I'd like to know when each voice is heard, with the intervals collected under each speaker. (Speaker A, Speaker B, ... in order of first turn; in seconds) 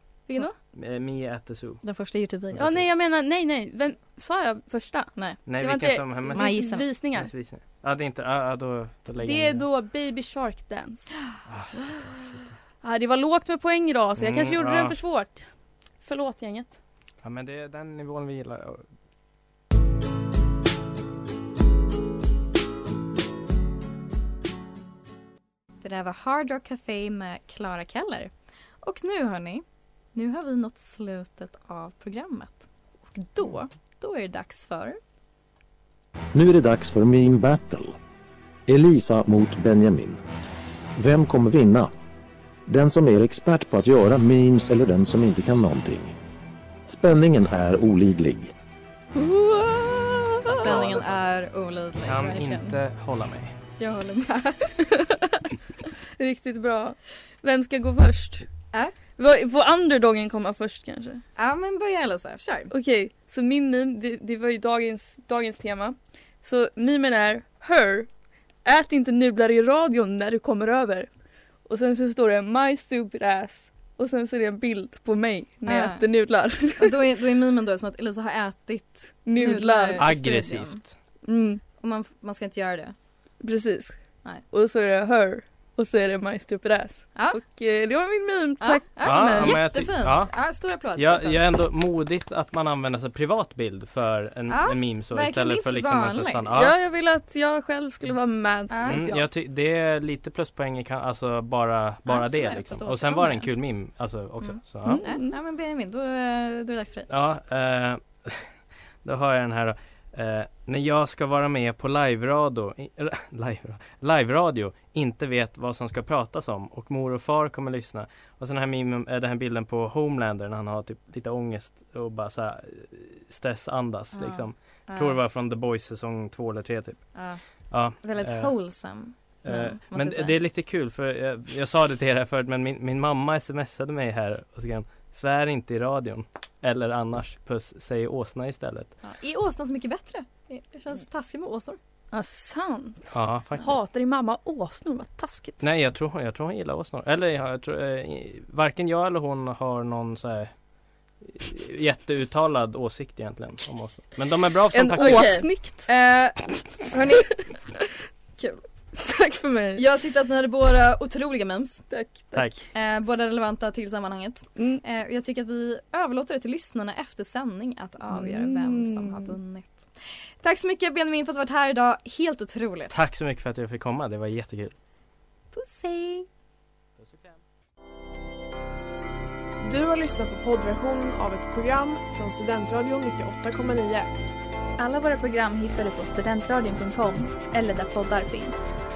Speaker A: 0.3-0.5, 2.6-7.3, 9.2-11.2, 12.8-15.5, 16.0-16.8, 49.1-50.6, 54.8-55.4, 56.2-58.5, 59.2-61.2, 62.7-68.1, 68.6-71.1, 71.7-77.0, 79.2-80.0, 81.2-81.6, 83.4-83.9, 84.5-89.6, 96.5-99.2, 104.8-105.3, 142.1-145.6, 154.7-155.9, 158.9-159.8, 161.9-162.6, 168.1-169.3
Speaker B: 0.7-1.8, 2.5-2.9, 5.5-9.7, 11.5-12.5, 14.2-14.9, 17.2-18.8, 50.6-51.2, 52.0-53.5, 80.0-80.9, 89.0-90.3, 90.9-96.7, 98.8-105.0, 107.1-108.5, 109.0-127.1, 127.7-128.5, 129.4-138.9, 143.1-143.8, 145.6-150.5, 151.3-155.3, 162.3-162.6, 172.9-174.7, 177.0-177.4
Speaker C: 1.8-2.8, 5.2-5.4, 6.3-6.9, 25.8-35.0, 50.4-52.8, 53.8-54.8, 61.4-62.7, 75.6-76.0, 76.8-80.8, 81.8-82.9, 87.2-87.4, 88.6-91.4, 94.5-96.6, 98.7-99.1, 102.0-103.5, 104.4-107.1, 124.1-125.2, 127.1-127.4, 128.0-130.4, 139.0-141.8, 155.0-157.4, 158.4-158.6, 159.8-161.8, 162.7-169.8, 170.4-173.0, 175.5-176.3
Speaker D: 36.3-38.0, 38.7-40.2, 41.0-41.9, 42.7-46.1, 46.9-48.5
Speaker E: 179.6-184.1
Speaker F: 184.8-188.7